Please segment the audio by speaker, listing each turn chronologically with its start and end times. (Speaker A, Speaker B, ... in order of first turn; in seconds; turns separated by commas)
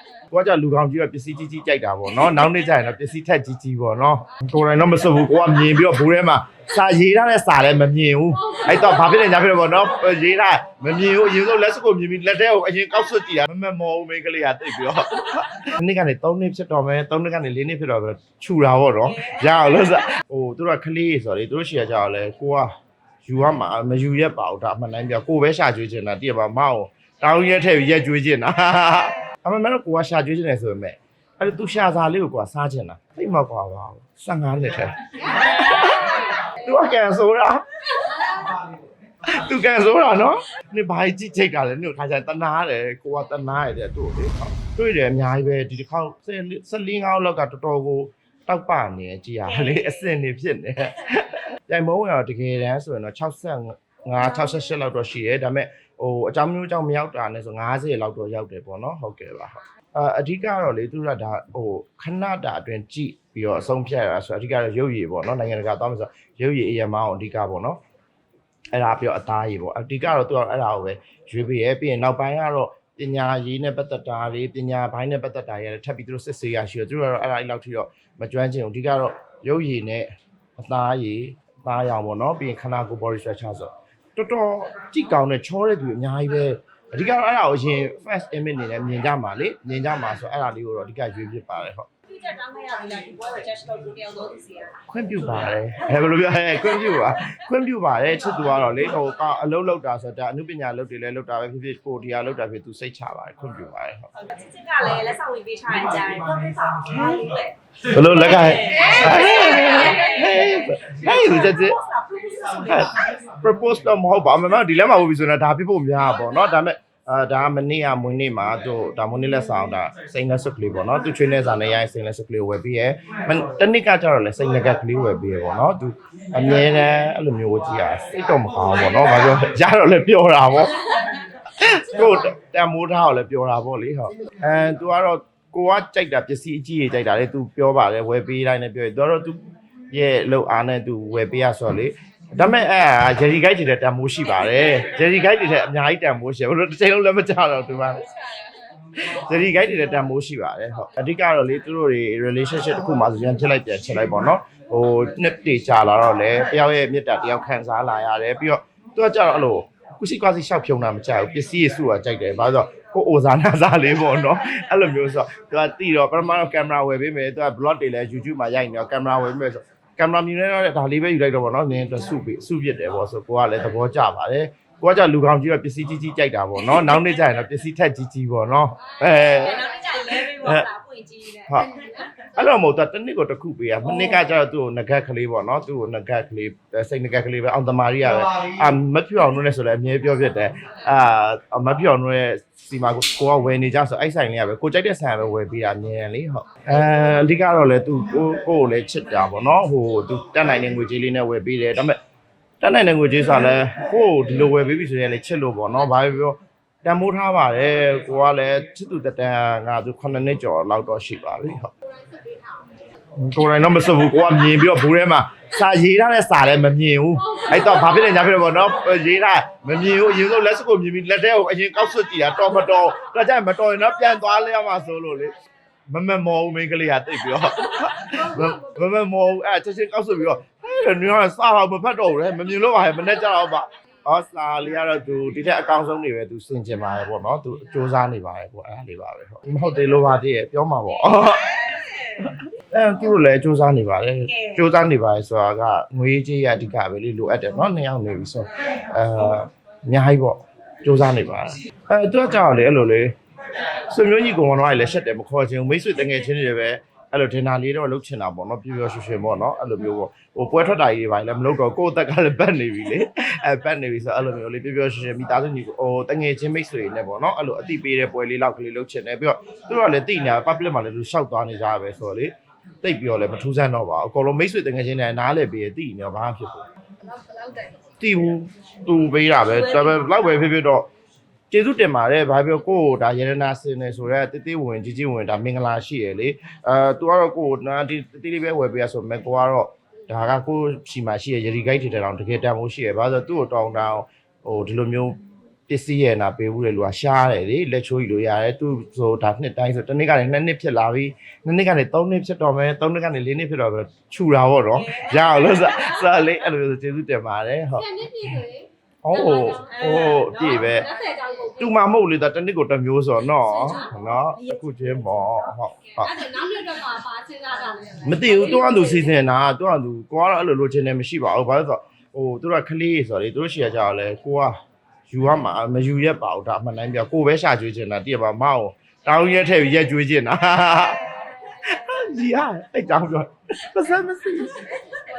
Speaker A: 0.3-22.7, Speaker B: 19.1-20.1, Speaker A: 23.2-37.9, Speaker A: 39.2-67.8, Speaker B: 49.4-50.1, Speaker A: 68.7-91.9, Speaker B: 92.1-94.7, Speaker A: 94.9-104.1, Speaker B: 104.1-107.5, Speaker A: 107.9-111.8, Speaker B: 108.6-113.0, Speaker A: 112.6-148.1, Speaker A: 149.0-180.7, Speaker B: 179.1-182.1, Speaker A: 181.5-181.8, Speaker A: 182.3-202.0, Speaker A: 202.6-211.7, Speaker C: 212.0-212.6, Speaker A: 213.2-225.3, Speaker A: 225.9-253.1, Speaker B: 241.1-242.2, Speaker B: 244.3-244.6, Speaker A: 253.9-276.6, Speaker C: 277.2-277.7, Speaker A: 278.0-280.9, Speaker B: 279.4-280.1, Speaker A: 281.5-308.4, Speaker B: 304.7-306.0, Speaker C: 307.8-309.6, Speaker A: 309.0-310.9, Speaker B: 309.6-311.2, Speaker C: 310.9-311.6, Speaker A: 311.6-316.2, Speaker C: 316.1-318.7, Speaker A: 318.0-334.8